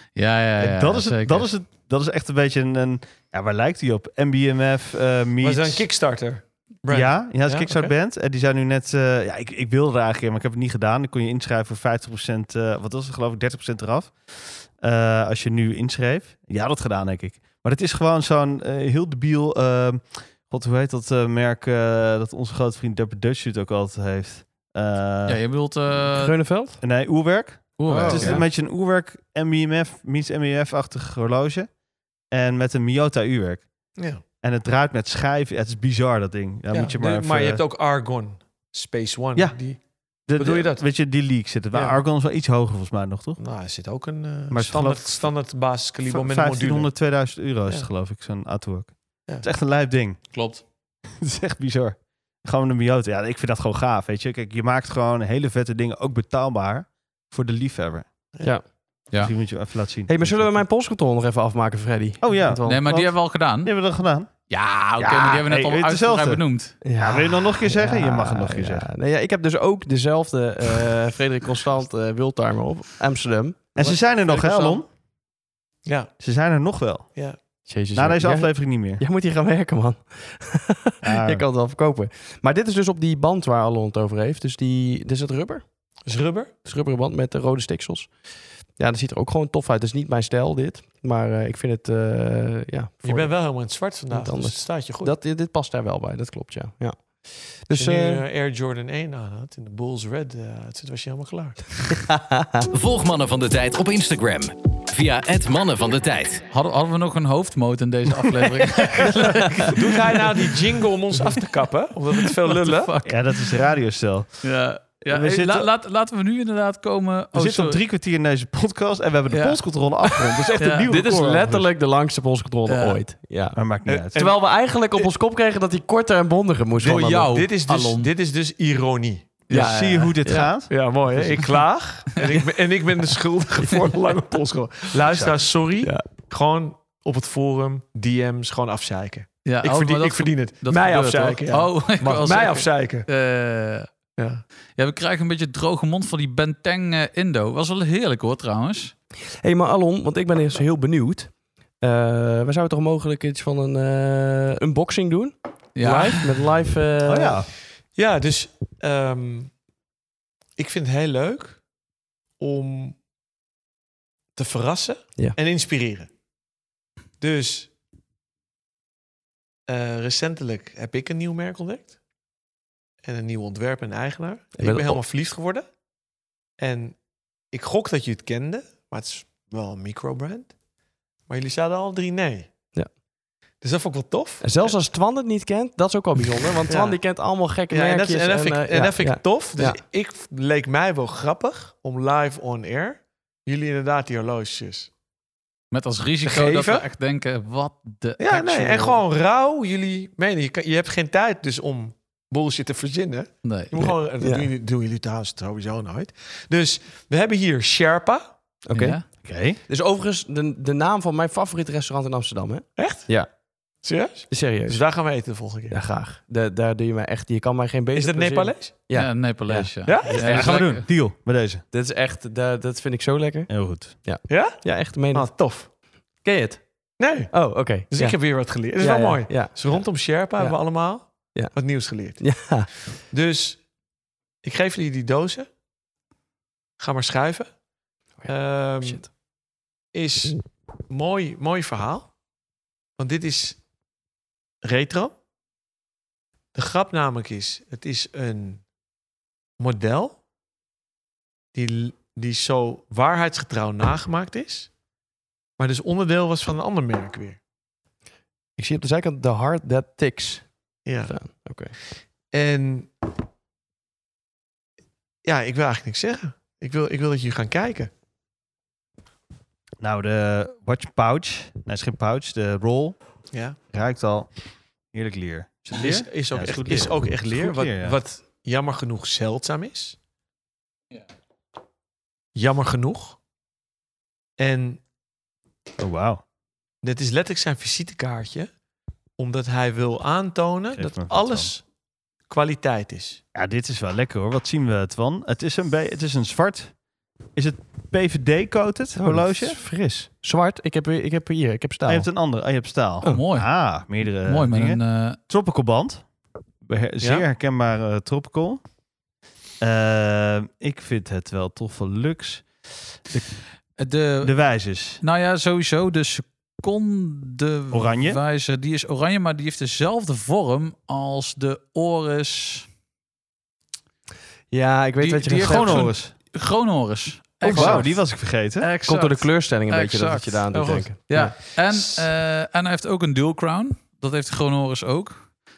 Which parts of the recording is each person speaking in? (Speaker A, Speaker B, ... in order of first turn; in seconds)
Speaker A: 0.2-1.5, 25.3-26.4, 27.8-28.4, 50.3-50.6, 62.7-63.8, 64.5-66.8, 106.5-110.3, 112.2-113.6, 114.4-117.8, 119.3-120.9, 122.7-123.0, 126.8-128.1, 129.5-130.1, 139.4-143.9, 144.8-148.9, 155.8-156.5, 195.7-199.0, 203.4-203.7, 208.7-209.0, 218.9-220.8, 303.1-305.2, 313.8-314.4, 315.0-322.7, 325.0-335.3
Speaker B: 0.6-5.9, 6.9-25.4, 26.8-31.7, 32.3-33.7, 34.4-37.6, 40.3-43.4, 44.5-45.3, 46.1-50.3, 51.1-58.0, 59.1-60.6, 62.2-64.3, 65.0-66.4, 67.0-68.9, 73.8-74.9, 76.2-77.1, 77.9-79.0, 81.0-81.5, 113.0-115.7, 117.3-121.7, 123.5-124.2, 129.5-130.7, 157.1-157.5, 209.2-209.6, 220.1-221.6, 223.5-224.0, 269.8-273.0, 273.7-274.3, 274.9-278.0, 285.8-286.2, 290.8-291.5, 293.4-296.8, 297.4-299.6, 301.9-306.1, 306.6-308.6, 309.6-312.5, 314.2-315.0, 317.7-318.2, 325.4-326.1, 327.4-328.7
Speaker C: 5.4-7.9, 27.9-28.4, 34.0-34.2, 36.7-39.8, 40.4-40.9, 41.7-42.0, 43.4-46.9, 75.9-76.1, 86.1-86.5, 93.0-95.1, 97.7-101.6, 109.5-112.9, 123.9-124.4, 126.8-129.5, 130.7-143.1, 144.2-144.4, 157.9-159.5, 160.6-161.6, 162.4-163.0, 164.4-166.1, 167.2-167.7, 169.7-171.9, 173.0-175.6, 176.6-177.0, 177.5-180.5, 181.3-182.5, 183.6-184.7, 186.6-187.0, 187.7-194.9, 196.2-196.9, 198.2-208.3, 212.8-213.1, 213.8-215.8, 217.9-218.7, 219.8-220.2, 224.3-225.7, 227.0-233.6, 234.4-235.5, 236.8-237.5, 238.3-239.1, 239.9-242.1, 243.0-243.6, 244.6-245.1, 246.5-248.6, 249.6-250.2, 251.5-254.7, 255.6-257.4, 260.9-261.5, 262.3-262.9, 265.2-267.9, 273.3-273.6, 275.7-280.0, 282.4-283.2, 284.4-284.8, 286.8-288.5, 289.2-291.6, 292.3-293.2, 307.0-307.3, 330.5-331.2, 331.7-332.0
Speaker D: 26.1-26.8, 27.9-28.3, 60.1-62.8, 66.8-74.8, 77.7-85.7, 86.6-88.2, 88.8-93.4, 94.1-98.2, 102.0-102.7, 120.8-123.6, 124.1-127.3, 130.2-130.5, 149.4-157.5, 174.6-175.0, 184.4-189.8, 203.8-204.5, 208.7-213.3, 214.3-214.8, 215.7-220.6, 221.7-225.5, 226.2-230.6, 231.3-231.6, 232.2-232.7, 238.2-239.1, 258.6-261.8, 299.0-302.1, 324.5-325.9, 327.5-327.9, 328.9-331.4
Speaker E: 102.7-106.4